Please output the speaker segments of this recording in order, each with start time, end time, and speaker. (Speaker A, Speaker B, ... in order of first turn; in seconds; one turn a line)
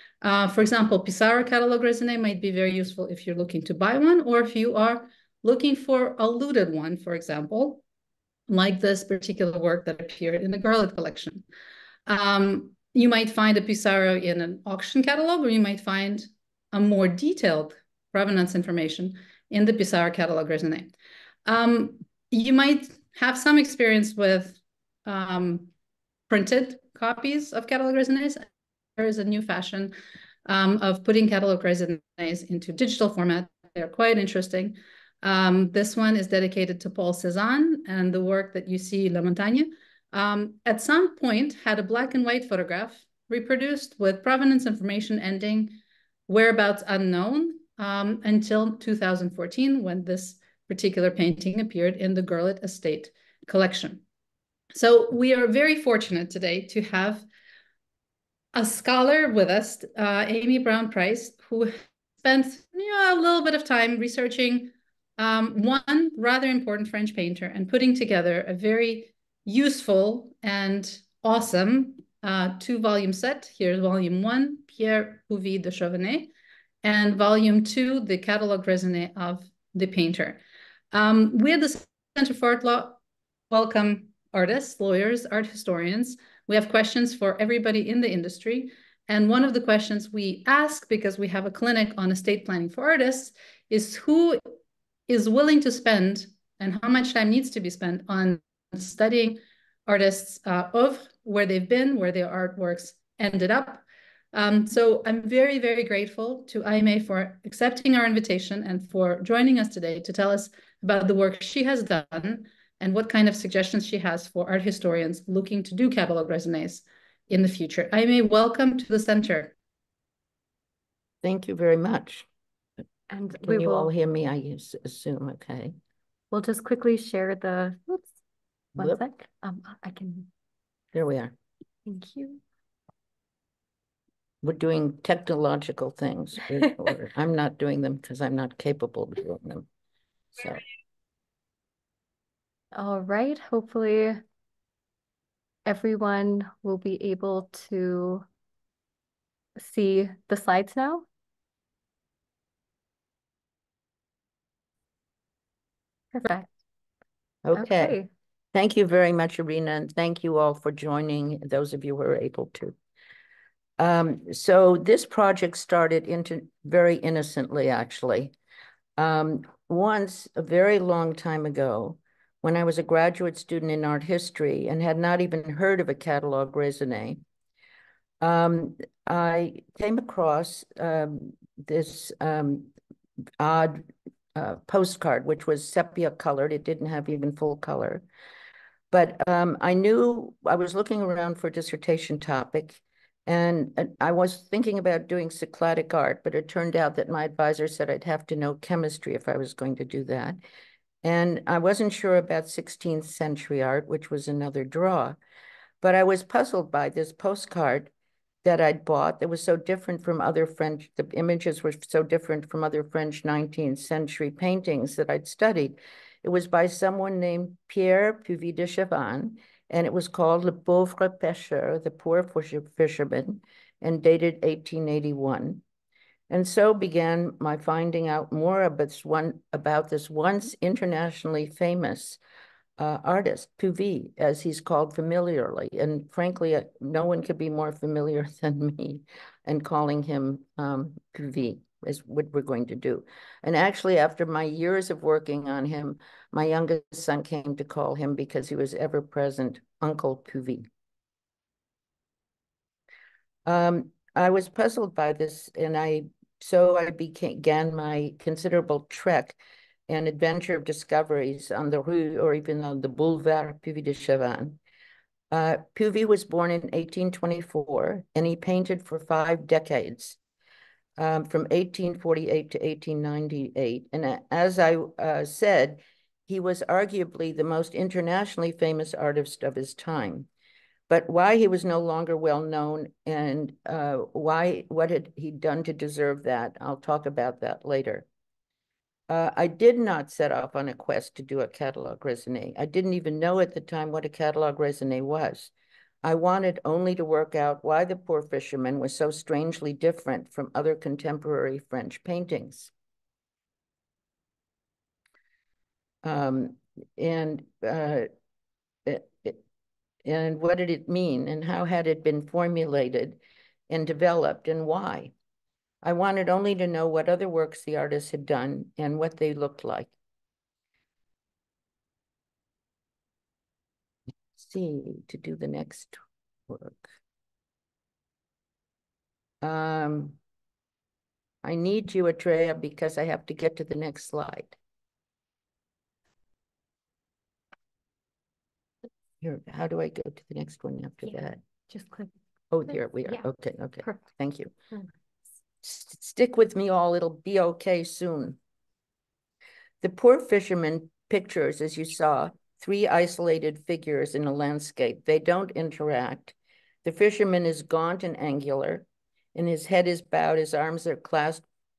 Speaker A: 0.2-7.8
Speaker A: 8.5-11.4
Speaker A: 12.1-20.9
Speaker A: 21.4-25.7
Speaker A: 26.3-28.4
Speaker A: 29.0-29.9
Speaker A: 30.4-45.7
Speaker A: 46.3-54.0
Speaker A: 54.7-57.2
Speaker A: 58.5-61.7
Speaker A: 62.2-76.3
Speaker A: 76.8-80.4
Speaker A: 80.9-83.0
Speaker A: 83.5-94.4
Speaker A: 95.1-119.5
Speaker B: 121.2-122.3
Speaker C: 123.1-123.9
Speaker B: 123.4-125.7
Speaker C: 126.3-128.2
Speaker C: 128.8-130.3
Speaker B: 130.9-131.3
Speaker C: 131.9-132.4
Speaker B: 134.4-139.7
Speaker B: 140.3-140.6
Speaker C: 142.7-144.2
Speaker C: 145.6-148.2
Speaker C: 149.6-151.1
Speaker C: 156.1-156.5
Speaker B: 157.4-158.0
Speaker C: 157.5-158.1
Speaker B: 158.5-162.8
Speaker B: 163.8-168.3
Speaker B: 169.0-177.2
Speaker B: 178.2-182.7
Speaker B: 183.4-183.8
Speaker B: 184.3-188.0
Speaker B: 188.9-200.4
Speaker B: 201.0-205.2
Speaker B: 205.8-207.9
Speaker B: 208.4-225.6
Speaker B: 226.3-232.2
Speaker B: 232.8-250.7
Speaker B: 253.4-264.6
Speaker B: 265.3-270.2
Speaker B: 271.0-280.3
Speaker B: 280.9-288.1
Speaker B: 289.1-295.5
Speaker B: 296.0-302.7
Speaker B: 306.0-308.1
Speaker B: 308.8-309.4
Speaker B: 310.0-313.2
Speaker B: 313.7-315.1
Speaker B: 315.8-319.9
Speaker B: 324.4-326.9
Speaker B: 329.4-330.2
Speaker B: 331.4-334.6
Speaker B: 339.2-341.4
Speaker C: 341.7-342.1
Speaker B: 342.5-344.5
Speaker B: 345.6-348.4
Speaker B: 349.8-361.4